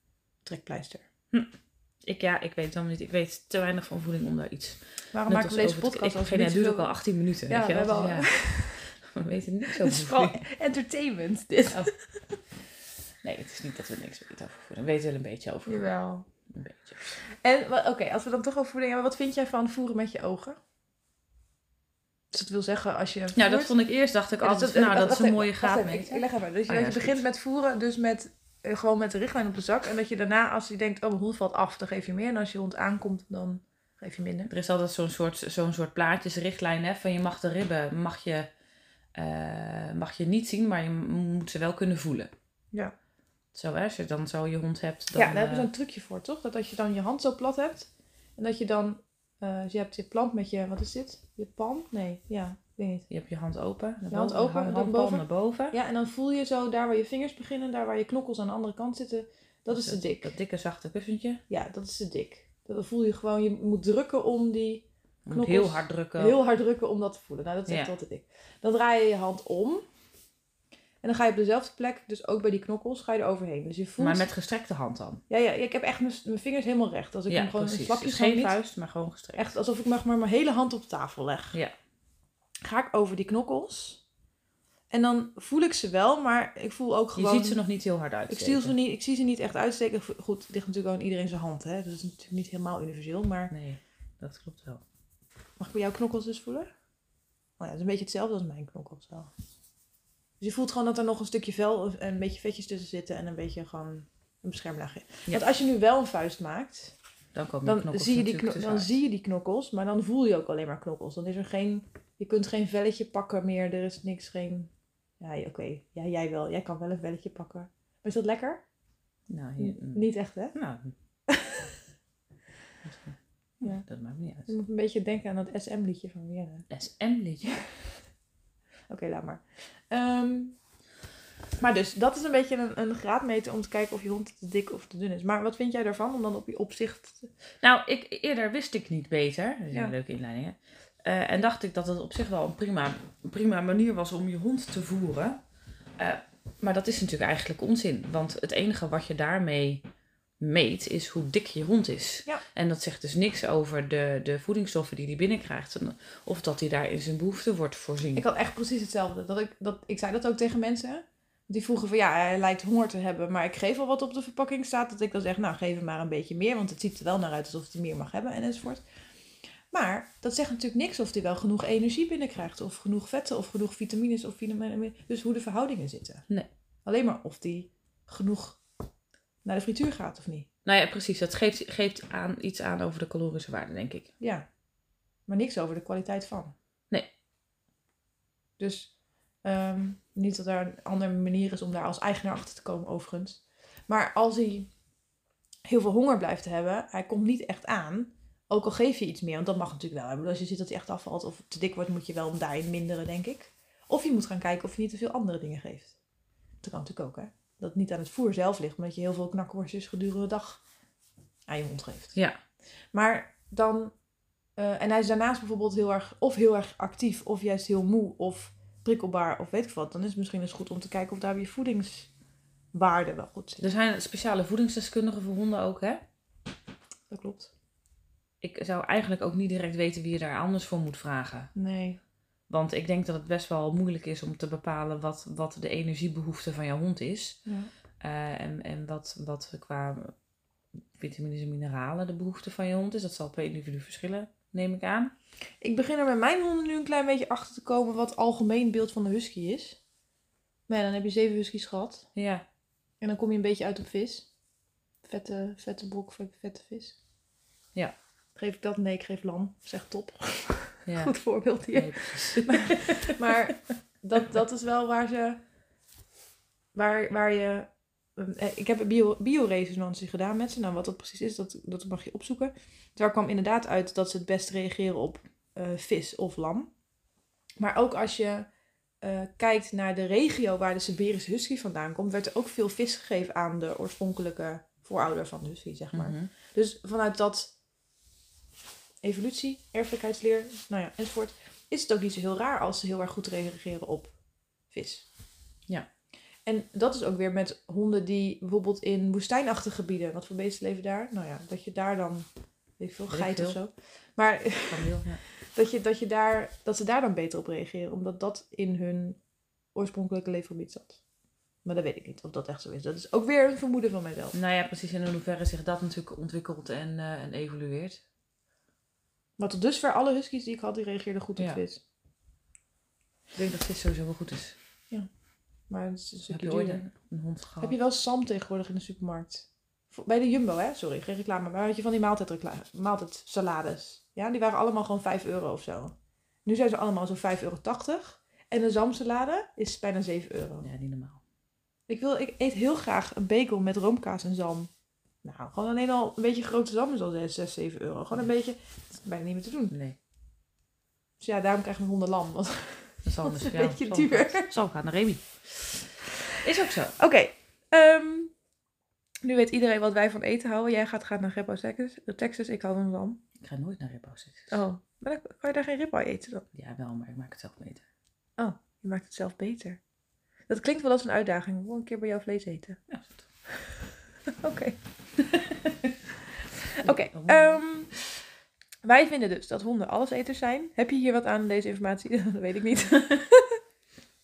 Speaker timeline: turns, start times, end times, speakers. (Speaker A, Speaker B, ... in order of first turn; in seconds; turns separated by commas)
Speaker A: 0.4-1.0, Speaker B: 1.3-10.4, Speaker A: 5.1-8.9, Speaker A: 9.7-12.2, Speaker B: 11.7-12.3, Speaker B: 13.2-17.2, Speaker A: 15.7-16.5, Speaker A: 17.1-20.6, Speaker A: 22.3-23.7, Speaker B: 23.3-27.2, Speaker A: 24.3-34.5, Speaker B: 34.5-38.5, Speaker B: 39.1-42.3, Speaker B: 43.5-45.7, Speaker A: 45.1-53.1, Speaker B: 53.1-55.8, Speaker A: 54.1-60.3, Speaker B: 59.7-61.4, Speaker A: 61.5-69.8, Speaker B: 65.2-66.4, Speaker B: 67.7-67.9, Speaker A: 71.0-74.2, Speaker B: 74.0-75.2, Speaker A: 75.3-78.5, Speaker B: 77.3-79.5, Speaker A: 79.3-81.6, Speaker A: 82.6-84.0, Speaker A: 84.9-87.6, Speaker B: 87.1-88.7, Speaker A: 88.3-93.5, Speaker B: 93.5-94.8, Speaker A: 95.6-96.7, Speaker A: 97.6-99.3, Speaker A: 100.4-107.0, Speaker B: 107.3-108.9, Speaker A: 107.6-118.6, Speaker B: 119.3-120.9, Speaker A: 119.6-120.6, Speaker A: 121.3-121.7, Speaker B: 122.8-124.5, Speaker A: 123.6-123.9, Speaker A: 124.5-126.7, Speaker B: 126.7-127.5, Speaker A: 127.4-128.0, Speaker A: 128.9-130.6, Speaker A: 131.6-137.3, Speaker B: 137.6-145.4, Speaker B: 146.0-149.8, Speaker B: 150.4-158.2, Speaker A: 158.1-168.8, Speaker A: 169.7-176.3, Speaker A: 176.8-178.6, Speaker A: 179.4-180.5, Speaker B: 180.6-184.1, Speaker A: 184.2-184.5, Speaker A: 185.2-186.5, Speaker A: 188.6-194.7, Speaker A: 195.6-206.0, Speaker A: 206.6-210.6, Speaker A: 211.5-212.2, Speaker A: 212.9-213.9, Speaker A: 214.5-222.1, Speaker A: 222.7-223.6, Speaker B: 223.6-226.0, Speaker A: 227.1-227.5, Speaker B: 228.4-231.5, Speaker A: 231.5-232.0, Speaker B: 232.5-237.4, Speaker B: 238.0-240.1, Speaker B: 240.9-245.1, Speaker A: 245.6-249.8, Speaker A: 250.7-252.1, Speaker B: 252.1-252.4, Speaker A: 253.0-254.3, Speaker A: 255.0-257.0, Speaker A: 258.3-265.4, Speaker B: 260.8-263.3, Speaker A: 266.7-276.7, Speaker A: 277.6-287.5, Speaker B: 285.9-286.3, Speaker A: 289.0-295.1, Speaker A: 296.4-311.0, Speaker B: 303.1-303.6, Speaker B: 304.7-305.2, Speaker A: 311.6-314.4, Speaker B: 314.3-318.0, Speaker A: 319.4-321.8, Speaker B: 321.4-321.6, Speaker B: 323.3-324.6, Speaker A: 325.6-326.9, Speaker B: 326.3-327.8, Speaker A: 327.6-340.7, Speaker B: 340.6-341.2, Speaker A: 341.9-344.7, Speaker A: 345.2-349.7, Speaker B: 349.7-350.0, Speaker A: 351.2-354.5, Speaker B: 353.0-355.7, Speaker B: 356.4-356.9, Speaker A: 357.0-358.3, Speaker A: 359.2-363.2, Speaker B: 363.4-364.5, Speaker A: 364.5-366.4, Speaker B: 366.5-367.8, Speaker A: 368.4-369.8, Speaker A: 370.5-372.8, Speaker B: 372.9-373.2, Speaker A: 374.4-374.8, Speaker B: 375.3-375.9, Speaker A: 376.8-378.1, Speaker B: 376.8-377.6, Speaker A: 378.8-383.6